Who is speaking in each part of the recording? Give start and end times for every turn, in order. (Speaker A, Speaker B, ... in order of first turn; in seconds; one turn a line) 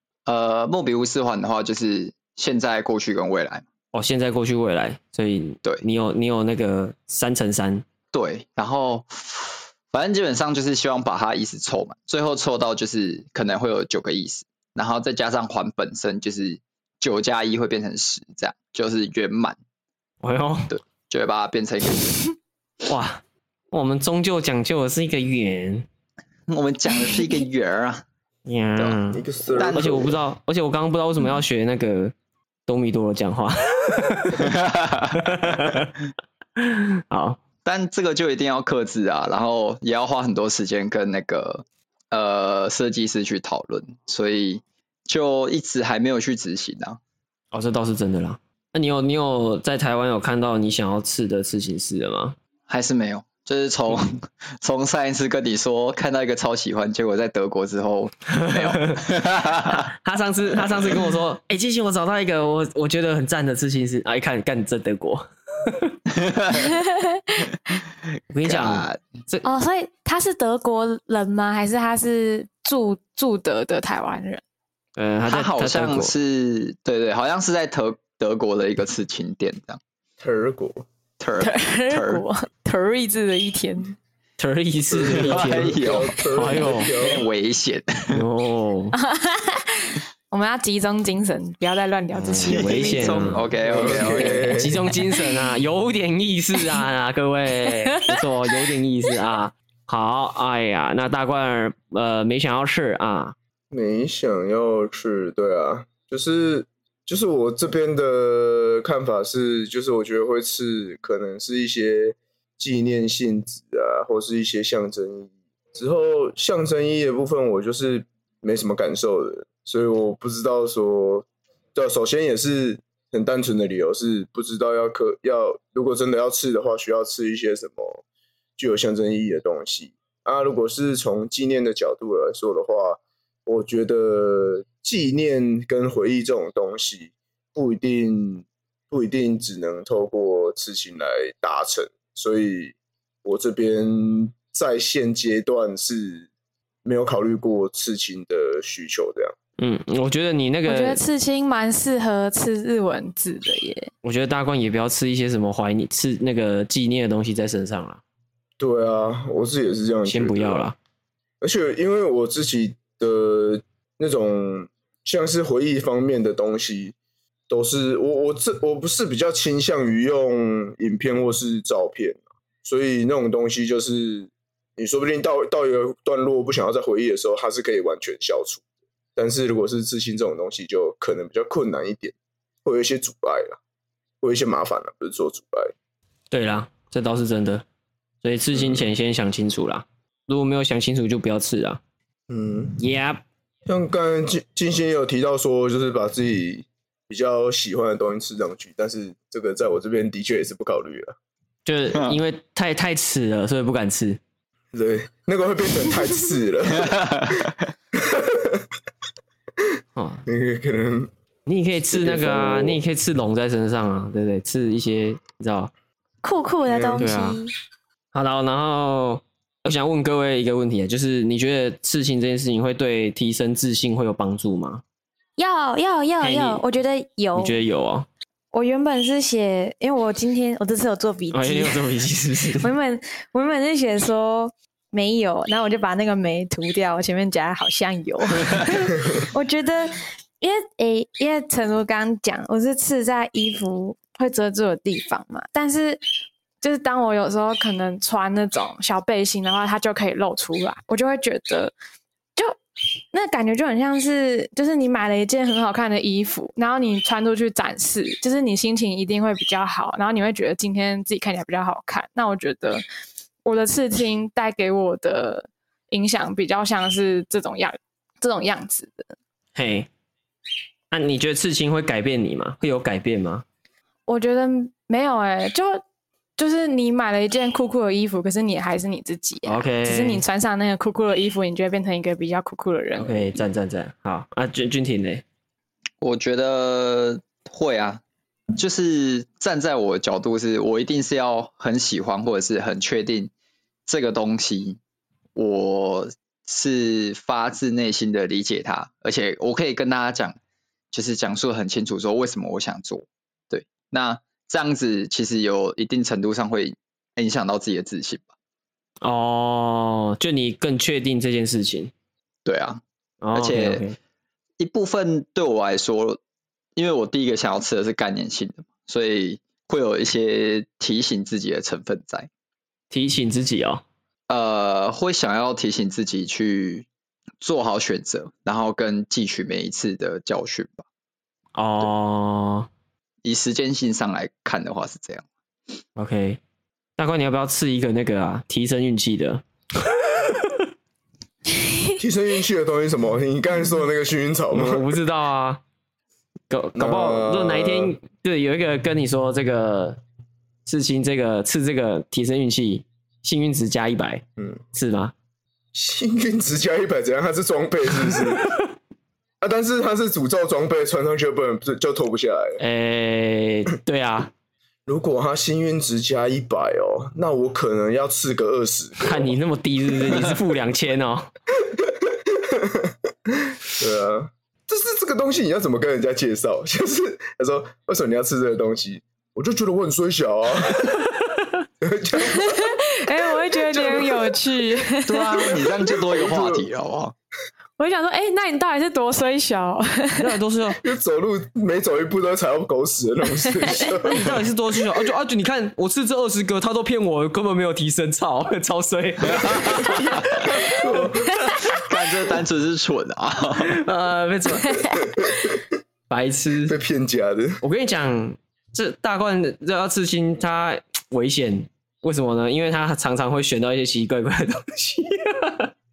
Speaker A: 0.3-3.6
Speaker B: 3.9-7.8
Speaker A: 8.1-19.6
Speaker B: 20.2-20.7
Speaker A: 20.7-22.3
Speaker B: 22.9-25.9
Speaker A: 26.5-28.0
Speaker B: 28.4-32.1
Speaker C: 29.1-30.1
Speaker A: 29.6-30.2
Speaker B: 32.7-34.6
Speaker A: 34.4-35.2
Speaker B: 35.1-36.0
Speaker B: 36.6-37.4
Speaker A: 37.6-47.0
Speaker B: 47.5-52.4
Speaker A: 52.7-59.9
Speaker B: 58.3-59.0
Speaker B: 59.6-66.0
Speaker A: 60.6-61.0
Speaker A: 66.2-66.6
Speaker D: 66.7-67.4
Speaker B: 68.3-69.4
Speaker A: 68.4-69.0
Speaker D: 69.4-74.4
Speaker B: 75.0-76.1
Speaker A: 75.3-79.8
Speaker C: 80.2-80.8
Speaker A: 81.2-82.2
Speaker D: 81.4-84.0
Speaker B: 84.4-86.9
Speaker C: 84.9-87.2
Speaker A: 85.0-88.2
Speaker B: 88.1-88.9
Speaker D: 88.9-93.4
Speaker B: 92.1-103.3
Speaker A: 92.4-94.6
Speaker C: 93.6-94.8
Speaker D: 95.1-95.3
Speaker D: 97.7-98.1
Speaker C: 103.7-128.0
Speaker C: 128.6-146.3
Speaker C: 146.8-149.3
Speaker B: 149.6-151.0
Speaker D: 150.6-153.9
Speaker B: 154.0-158.0
Speaker C: 158.6-160.6
Speaker B: 160.1-160.8
Speaker C: 161.4-166.9
Speaker C: 167.5-178.6
Speaker C: 179.2-183.6
Speaker C: 184.2-185.7
Speaker B: 186.3-187.6
Speaker B: 188.2-191.8
Speaker C: 188.5-188.8
Speaker C: 192.3-192.8
Speaker B: 192.8-193.2
Speaker C: 193.7-201.1
Speaker B: 201.6-204.2
Speaker A: 201.9-202.2
Speaker C: 204.7-208.7
Speaker A: 206.8-207.5
Speaker B: 209.9-210.2
Speaker C: 210.2-211.1
Speaker B: 211.4-215.7
Speaker C: 211.9-212.8
Speaker D: 216.2-217.5
Speaker C: 216.7-217.1
Speaker B: 217.0-217.4
Speaker B: 218.1-224.8
Speaker D: 225.4-227.6
Speaker B: 226.2-226.6
Speaker B: 227.3-228.1
Speaker D: 228.5-231.9
Speaker B: 231.3-232.7
Speaker D: 232.6-246.0
Speaker D: 246.6-251.7
Speaker D: 253.1-262.8
Speaker D: 263.4-269.1
Speaker B: 269.5-269.9
Speaker B: 270.9-273.4
Speaker D: 274.1-275.8
Speaker D: 276.4-283.4
Speaker B: 279.4-280.2
Speaker B: 282.9-285.2
Speaker A: 286.0-288.0
Speaker A: 288.5-293.3
Speaker A: 293.9-294.8
Speaker A: 295.4-300.4
Speaker A: 300.9-308.3
Speaker B: 309.0-311.9
Speaker A: 312.4-312.8
Speaker B: 313.2-314.0
Speaker A: 313.3-313.8
Speaker A: 314.6-316.2
Speaker A: 316.8-322.3
Speaker B: 322.9-323.8
Speaker A: 324.3-326.9
Speaker A: 327.4-330.8
Speaker B: 331.5-332.7
Speaker A: 333.2-335.2
Speaker B: 335.9-336.4
Speaker B: 337.0-340.7
Speaker C: 342.0-345.0
Speaker B: 344.5-345.6
Speaker B: 346.5-350.0
Speaker C: 346.8-347.9
Speaker B: 350.6-355.1
Speaker C: 355.7-358.5
Speaker C: 359.4-362.6
Speaker B: 362.6-364.3
Speaker C: 364.9-369.3
Speaker B: 369.0-371.3
Speaker C: 371.6-381.1
Speaker C: 381.8-382.8
Speaker D: 382.2-385.5
Speaker C: 383.3-384.6
Speaker A: 385.1-387.1
Speaker C: 385.2-386.6
Speaker D: 387.8-390.3
Speaker B: 390.2-390.8
Speaker C: 390.8-394.4
Speaker B: 393.7-401.8
Speaker A: 399.3-400.4
Speaker C: 400.3-401.5
Speaker A: 401.7-403.8
Speaker B: 403.6-405.0
Speaker D: 404.6-405.0
Speaker C: 404.9-405.7
Speaker B: 406.1-406.7
Speaker C: 406.6-407.6
Speaker B: 407.6-415.7